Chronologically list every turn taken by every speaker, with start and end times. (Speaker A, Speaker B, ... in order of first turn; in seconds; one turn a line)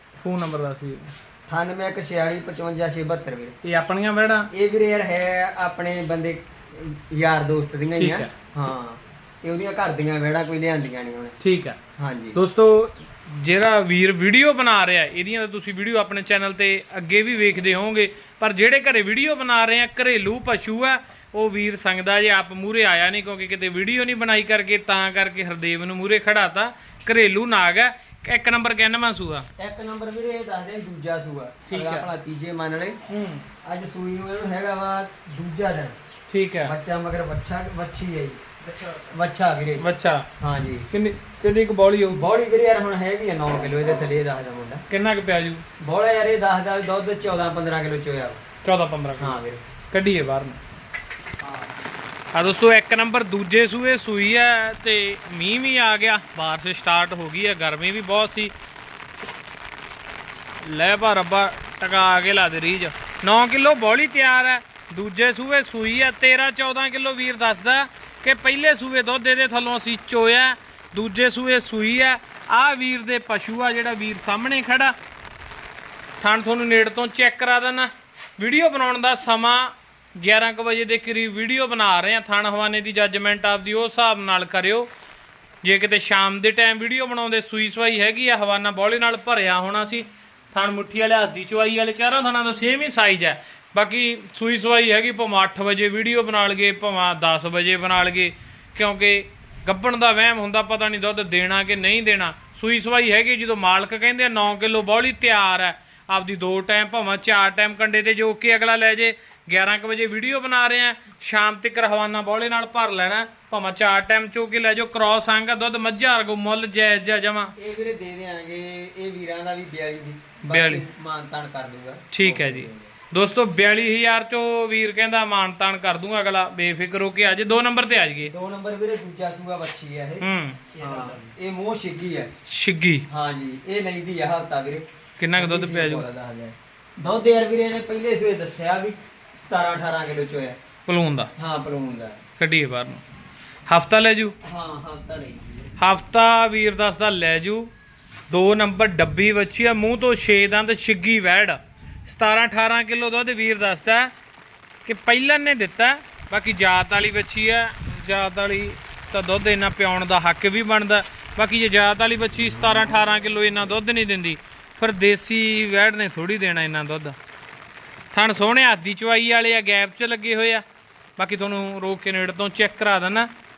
Speaker A: 0.2-1.1
Speaker B: 1.5-3.6
Speaker A: 3.6-4.5
Speaker B: 4.5-11.4
Speaker A: 8.0-8.3
Speaker A: 11.4-11.8
Speaker B: 12.0-12.4
Speaker A: 12.3-29.5
Speaker B: 29.6-33.0
Speaker A: 31.7-32.1
Speaker A: 33.1-33.5
Speaker B: 33.6-36.0
Speaker A: 36.3-36.7
Speaker B: 36.6-38.4
Speaker B: 39.1-39.9
Speaker A: 39.8-40.3
Speaker B: 40.4-40.9
Speaker A: 40.9-42.3
Speaker B: 42.1-44.8
Speaker A: 44.9-45.6
Speaker B: 45.8-48.4
Speaker A: 48.6-49.4
Speaker B: 49.2-49.6
Speaker A: 49.9-50.6
Speaker B: 51.4-51.7
Speaker A: 52.3-58.5
Speaker A: 60.6-75.0
Speaker A: 76.2-84.9
Speaker A: 85.6-117.5
Speaker B: 117.6-122.9
Speaker A: 120.5-120.8
Speaker A: 122.1-128.3
Speaker B: 128.2-132.3
Speaker A: 130.2-130.8
Speaker A: 132.5-133.1
Speaker B: 133.1-140.6
Speaker A: 135.2-136.1
Speaker A: 140.9-141.3
Speaker B: 141.4-142.2
Speaker A: 142.4-143.0
Speaker A: 143.7-144.3
Speaker B: 144.4-145.7
Speaker A: 145.8-147.7
Speaker A: 148.3-154.1
Speaker A: 154.8-167.2
Speaker A: 168.1-170.6
Speaker A: 171.2-173.3